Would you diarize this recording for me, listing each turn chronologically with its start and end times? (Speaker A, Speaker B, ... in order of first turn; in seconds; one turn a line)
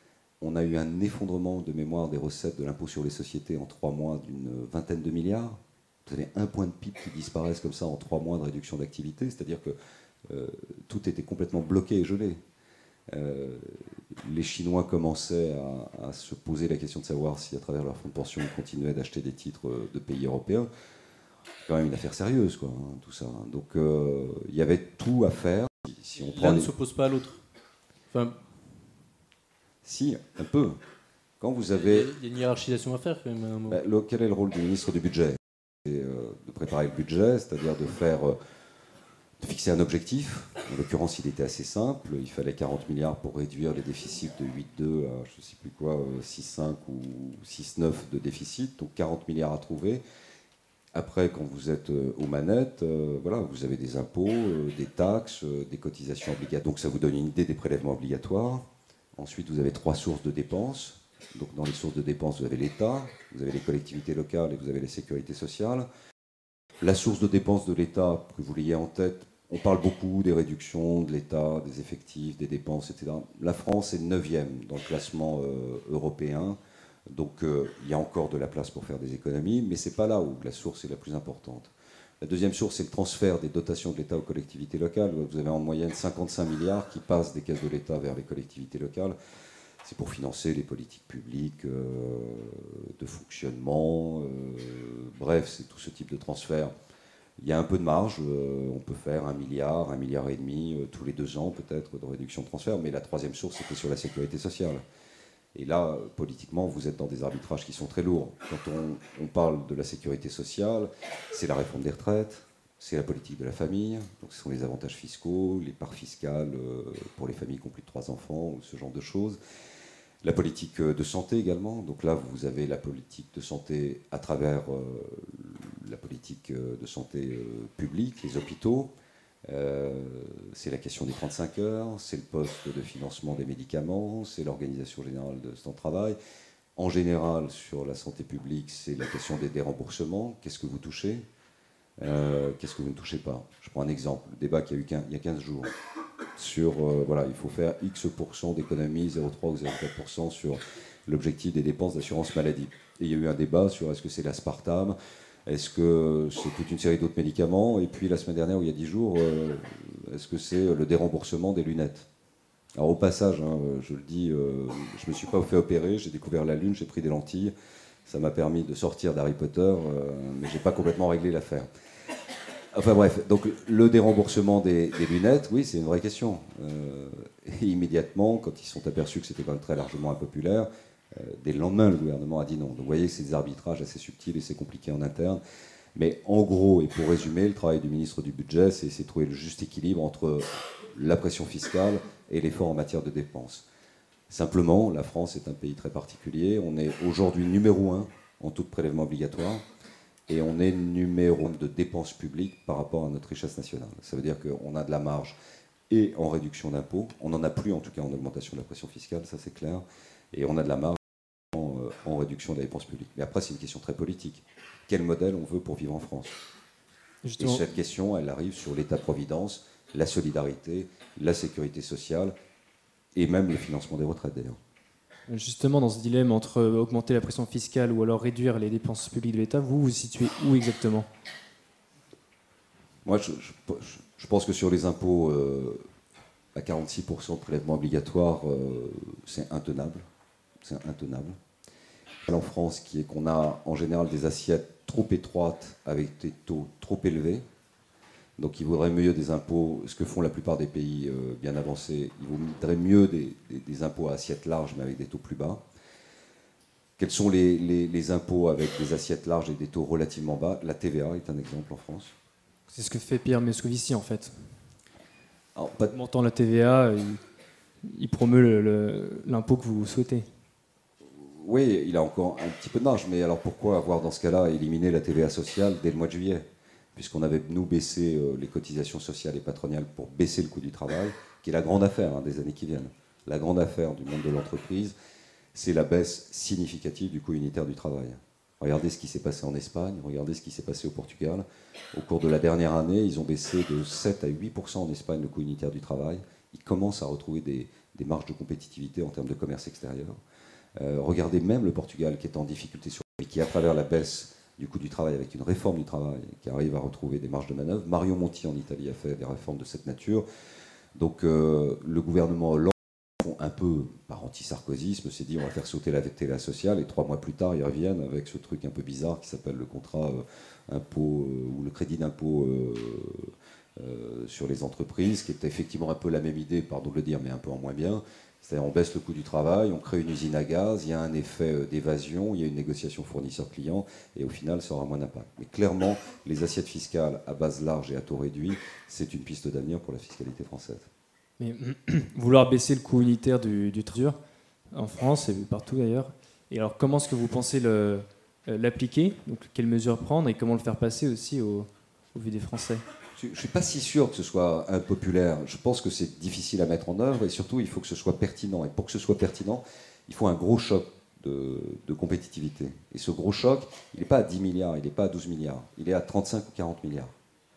Speaker A: 0.4-9.8
Speaker A: 10.3-12.4
Speaker A: 13.1-20.7
Speaker A: 21.7-26.7
Speaker B: 26.1-27.4
Speaker B: 28.1-28.4
Speaker A: 29.8-30.8
Speaker A: 31.4-32.1
Speaker B: 31.9-33.8
Speaker A: 33.7-38.4
Speaker A: 39.4-50.0
Speaker A: 50.9-65.9
Speaker A: 66.8-76.6
Speaker A: 77.1-89.2
Speaker A: 89.8-96.7
Speaker A: 97.4-104.8
Speaker A: 105.5-119.4
Speaker A: 120.2-128.9
Speaker A: 129.5-136.2
Speaker A: 136.8-141.2
Speaker A: 142.0-145.7
Speaker A: 146.4-162.1
Speaker A: 162.8-167.5
Speaker A: 168.1-171.7
Speaker A: 172.7-185.4
Speaker A: 185.9-193.6
Speaker A: 194.3-199.6
Speaker A: 200.3-205.3
Speaker A: 205.9-211.0
Speaker A: 211.5-216.3
Speaker C: 217.2-217.6
Speaker A: 217.4-222.3
Speaker A: 223.1-224.6
Speaker C: 225.3-231.1
Speaker A: 233.0-235.8
Speaker A: 236.5-240.1
Speaker A: 240.6-241.4
Speaker A: 242.2-247.4
Speaker A: 248.4-255.6
Speaker A: 257.0-262.1
Speaker C: 262.7-264.6
Speaker A: 265.5-265.9
Speaker C: 265.9-267.2
Speaker C: 267.8-270.3
Speaker A: 271.1-284.9
Speaker A: 285.5-300.2
Speaker A: 300.8-310.2
Speaker A: 310.9-340.9
Speaker C: 341.4-344.2
Speaker C: 344.7-352.8
Speaker A: 353.1-367.1